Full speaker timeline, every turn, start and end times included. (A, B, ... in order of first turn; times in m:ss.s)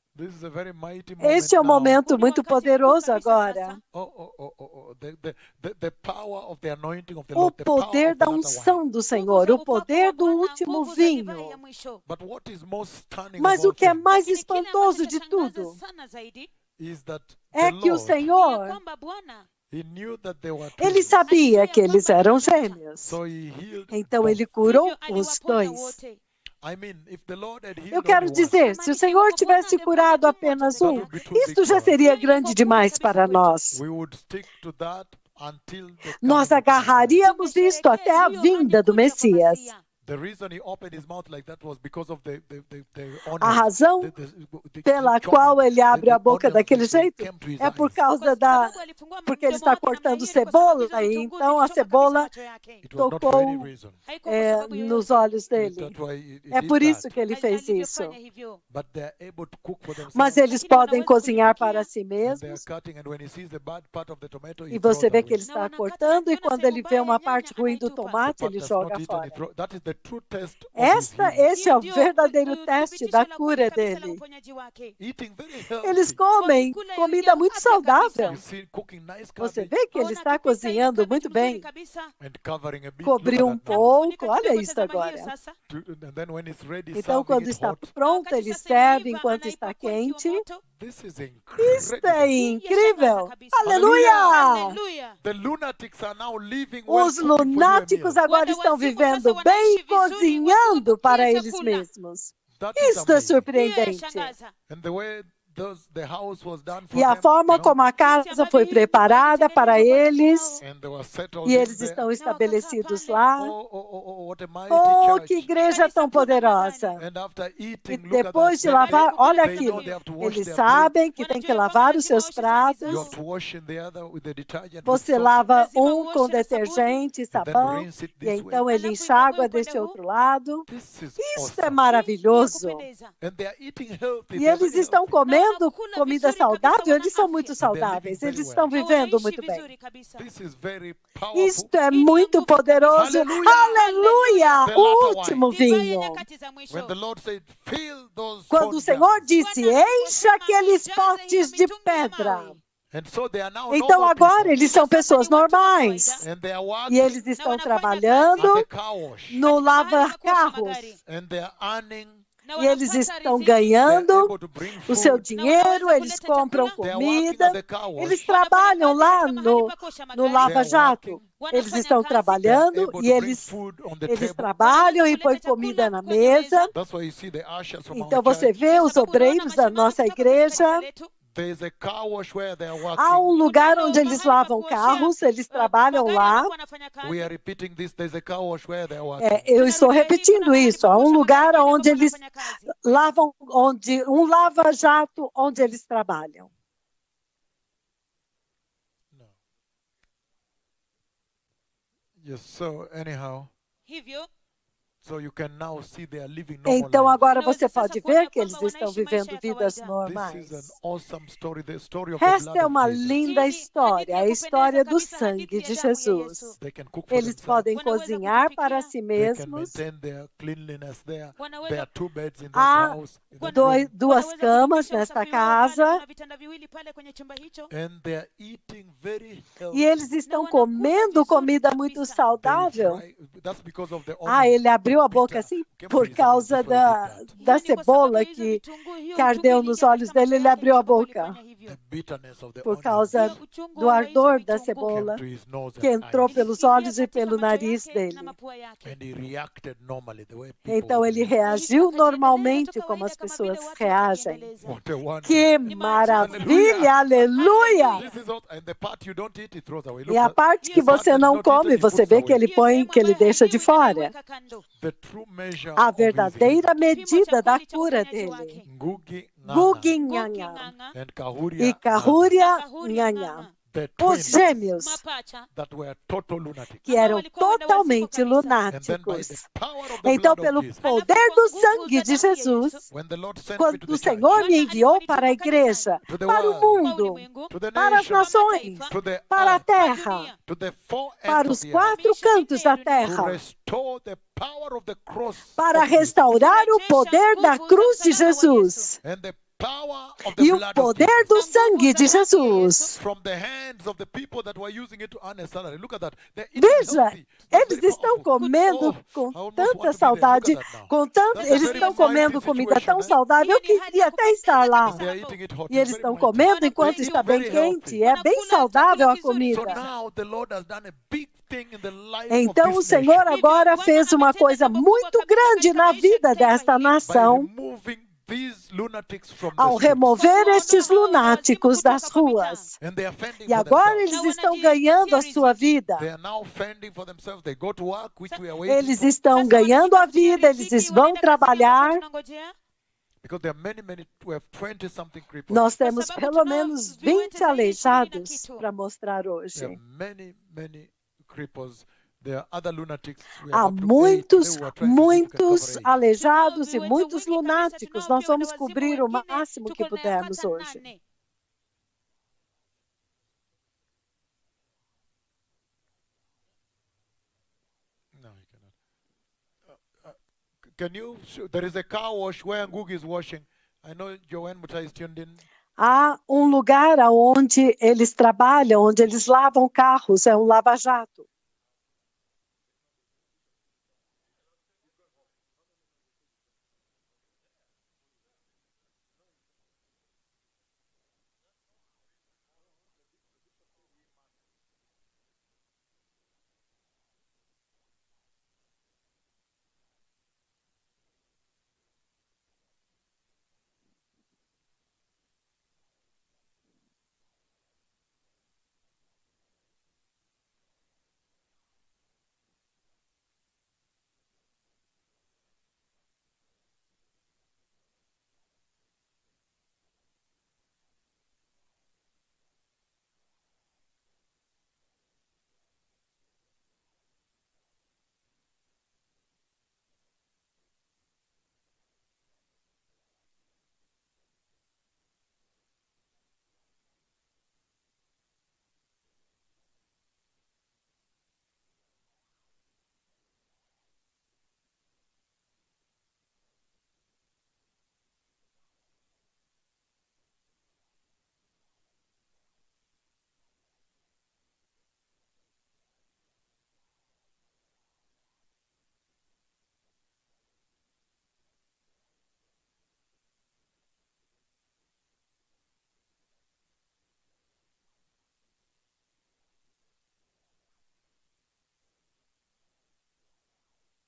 0:00.1-0:02.0 A
0:01.2-0:03.8 B
0:01.9-0:03.8 C
0:03.9-0:08.8 A
0:07.3-0:11.6 B
0:09.1-0:12.0 C
0:12.0-0:14.1 A
0:13.4-0:15.7 B
0:14.0-0:16.5 C
0:16.8-0:18.3 A
0:17.5-0:18.8 B
0:18.2-0:19.4 C
0:19.7-0:21.2 A
0:20.8-0:23.2 B
0:21.3-0:22.8 C
0:23.0-0:24.4 A
0:23.9-0:26.0 B
0:24.6-0:26.2 C
0:26.6-0:28.7 A
0:27.9-0:33.8 B
0:28.5-0:31.2 C
0:30.8-0:32.0 A
0:31.9-0:33.5 C
0:33.7-0:37.2 A
0:36.2-0:39.7 B
0:37.2-0:39.8 C
0:40.0-0:48.0 A
0:43.4-0:44.1 B
0:44.8-0:48.7 B
0:48.2-0:52.8 C
0:49.2-0:52.3 B
0:52.8-0:54.0 A
0:53.0-0:53.7 B
0:54.1-0:55.2 C
0:54.3-0:55.9 B
0:55.5-0:57.2 A
0:56.5-0:58.1 B
0:57.3-0:58.6 C
0:58.7-1:00.4 A
1:00.1-1:02.6 B
1:00.4-1:01.9 C
1:02.2-1:05.4 A
1:04.7-1:09.4 B
1:05.4-1:08.2 C
1:08.3-1:11.5 A
1:10.8-1:14.2 B
1:11.5-1:14.9 C
1:15.0-1:16.2 A
1:15.8-1:18.4 B
1:16.4-1:18.4 C
1:18.2-1:19.7 A
1:19.4-1:21.6 B
1:19.9-1:22.1 C
1:22.2-1:23.9 A
1:23.0-1:25.3 B
1:23.6-1:25.5 C
1:25.7-1:27.9 A
1:26.9-1:30.4 B
1:28.0-1:30.6 C
1:30.8-1:32.4 A
1:31.6-1:34.8 B
1:32.4-1:35.2 C
1:33.6-1:34.4 A
1:35.2-1:38.2 A
1:36.9-1:44.3 B
1:38.3-1:41.8 C
1:42.6-1:43.5 A
1:43.5-1:44.5 C
1:44.7-1:47.8 A
1:46.9-1:50.6 B
1:48.0-1:50.6 C
1:50.6-1:52.0 A
1:51.4-1:53.5 B
1:52.1-1:53.2 C
1:53.4-1:55.5 A
1:54.7-1:57.0 B
1:55.6-1:56.9 C
1:57.0-2:00.9 A
1:57.9-2:03.1 B
1:58.6-1:59.9 C
2:01.2-2:03.2 C
2:02.8-2:05.4 A
2:04.8-2:10.6 B
2:05.5-2:07.0 C
2:07.3-2:08.7 A
2:08.7-2:09.9 C
2:10.7-2:11.9 A
2:11.2-2:12.8 B
2:11.9-2:13.1 C
2:13.2-2:15.2 A
2:14.4-2:19.6 B
2:15.2-2:17.6 C
2:17.6-2:18.7 A
2:18.7-2:20.2 C
2:20.2-2:21.7 A
2:21.3-2:26.2 B
2:21.9-2:24.8 C
2:22.9-2:23.8 A
2:24.6-2:25.5 A
2:25.5-2:26.9 C
2:26.7-2:29.3 A
2:28.5-2:32.5 B
2:29.4-2:32.6 C
2:32.9-2:34.6 A
2:33.7-2:36.2 B
2:34.6-2:36.2 C
2:36.2-2:37.2 A
2:36.9-2:38.6 B
2:37.2-2:38.5 C
2:38.4-2:39.4 A
2:39.3-2:40.9 B
2:39.4-2:41.0 C
2:41.0-2:42.2 A
2:42.4-2:43.8 C
2:42.6-2:44.3 B
2:43.8-2:45.3 A
2:44.9-2:53.5 B
2:45.3-2:46.8 C
2:46.8-2:48.3 A
2:48.2-2:50.8 C
2:50.4-2:51.2 A
2:51.4-2:52.5 C
2:52.4-2:54.5 A
2:54.1-2:56.7 B
2:54.6-2:56.7 C
2:56.7-2:58.6 A
2:57.9-3:00.8 B
2:58.5-3:01.1 C
3:01.3-3:03.6 A
3:03.0-3:06.5 B
3:03.4-3:07.3 C
3:07.0-3:09.5 A
3:09.2-3:12.2 B
3:09.6-3:12.7 C
3:12.8-3:16.5 B
3:22.2-3:23.5 A
3:23.9-3:24.3 C
3:25.0-3:27.2 A
3:26.7-3:30.7 B
3:27.3-3:29.9 C
3:30.0-3:33.2 A
3:32.2-3:36.5 B
3:33.2-3:36.5 C
3:36.6-3:37.7 A
3:37.1-3:39.8 B
3:37.7-3:38.9 C
3:39.2-3:43.9 A
3:41.4-3:41.9 C
3:42.5-3:46.0 B
3:43.5-3:47.7 C
3:47.7-3:50.1 A
3:49.7-3:53.0 B
3:50.2-3:52.2 C
3:52.4-3:57.4 A
3:54.3-3:58.6 B
3:57.4-4:01.8 C
3:59.2-4:01.3 B
4:01.6-4:03.4 A
4:02.6-4:05.2 B
4:03.1-4:05.0 C
4:04.9-4:06.5 A
4:05.8-4:08.3 B
4:06.3-4:09.0 C
4:08.8-4:11.4 A
4:10.7-4:14.4 B
4:11.5-4:14.7 C
4:14.6-4:15.5 A
4:15.2-4:18.0 B
4:15.6-4:18.2 C
4:16.1-4:17.0 A
4:17.9-4:22.4 A
4:20.1-4:24.1 B
4:20.6-4:21.0 C
4:22.2-4:24.6 C
4:24.8-4:26.7 A
4:25.8-4:28.6 B
4:26.8-4:28.6 C
4:28.6-4:29.9 A
4:29.5-4:30.7 B
4:30.0-4:30.9 C
4:30.9-4:32.3 A
4:31.6-4:33.4 B
4:32.3-4:33.5 C
4:33.7-4:34.6 A
4:34.0-4:35.0 B
4:34.8-4:35.4 C
4:35.5-4:36.9 A
4:36.9-4:38.6 C
4:36.9-4:39.4 B
4:38.7-4:40.8 A
4:40.0-4:42.8 B
4:40.8-4:42.8 C
4:42.9-4:44.5 A
4:43.6-4:47.2 B
4:44.3-4:46.0 C
4:46.1-4:46.9 A
4:46.8-4:48.9 C
4:47.5-4:48.3 A
4:47.8-4:50.3 B
4:48.9-4:49.7 A
4:49.6-4:50.3 C
4:50.4-4:52.0 A
4:51.3-4:53.4 B
4:51.8-4:53.1 C
4:53.0-4:56.2 A
4:55.6-4:59.0 B
4:56.2-4:58.9 C
4:59.0-5:01.3 A
5:00.4-5:03.0 B
5:01.3-5:03.0 C
5:03.0-5:13.1 A
5:06.6-5:15.0 B
5:11.4-5:15.4 C
5:14.8-5:18.0 A
5:15.7-5:19.8 B
5:16.4-5:19.9 C
5:19.5-5:23.4 A
5:22.3-5:27.5 B
5:23.2-5:27.0 C
5:27.0-5:30.2 A
5:29.6-5:32.6 B
5:30.1-5:32.7 C
5:32.8-5:34.1 A
5:33.4-5:36.0 B
5:34.1-5:35.6 C
5:35.9-5:39.1 A
5:38.7-5:42.0 B
5:39.2-5:42.5 C
5:43.2-5:45.8 A
5:45.5-5:49.8 B
5:45.8-5:48.6 C
5:49.5-5:55.9 A
5:53.5-6:00.8 B
5:56.2-6:01.0 C
6:08.1-6:08.7 A
6:09.7-6:15.4 A
6:15.8-6:21.2 B